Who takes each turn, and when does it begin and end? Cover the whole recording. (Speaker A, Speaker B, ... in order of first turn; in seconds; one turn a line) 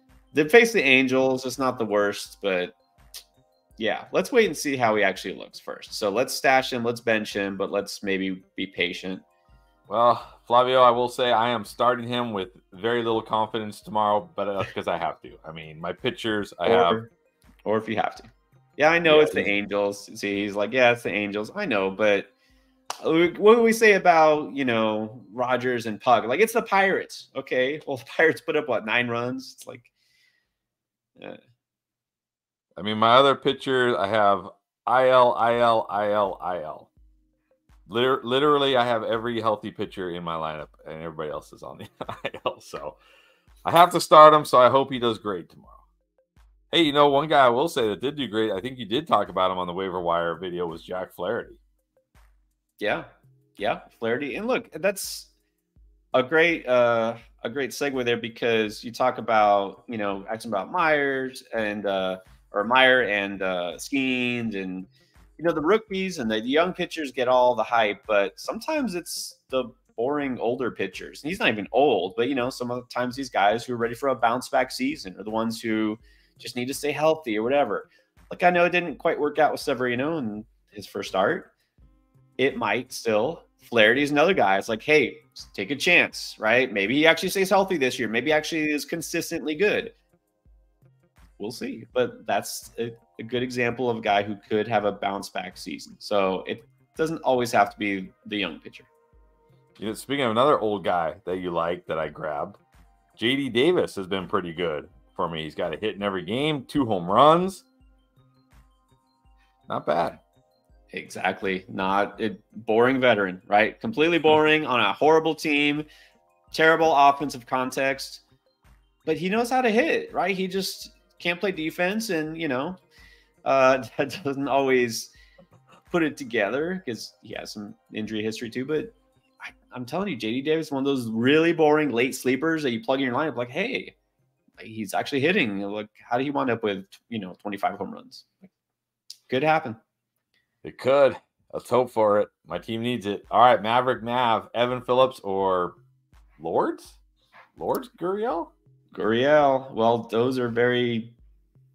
Speaker A: 0.3-2.8
Speaker A: 3.8-9.2
Speaker B: 9.9-17.0
Speaker A: 16.6-17.1
Speaker A: 17.6-22.3
Speaker B: 19.1-19.5
Speaker A: 23.0-29.9
Speaker B: 32.8-36.9
Speaker B: 37.9-43.0
Speaker B: 43.6-45.8
Speaker B: 46.7-51.6
Speaker A: 52.8-55.3
Speaker A: 56.1-81.5
Speaker A: 82.4-89.9
Speaker A: 91.4-98.9
Speaker B: 99.8-102.6
Speaker B: 103.2-107.7
Speaker B: 109.7-110.2
Speaker A: 110.9-115.9
Speaker A: 116.5-118.2
Speaker A: 119.0-122.8
Speaker A: 123.4-125.1
Speaker A: 125.9-133.9
Speaker A: 134.6-138.5
Speaker A: 139.3-139.8
Speaker B: 140.6-145.8
Speaker B: 146.4-147.0
Speaker B: 147.6-148.5
Speaker A: 148.9-151.2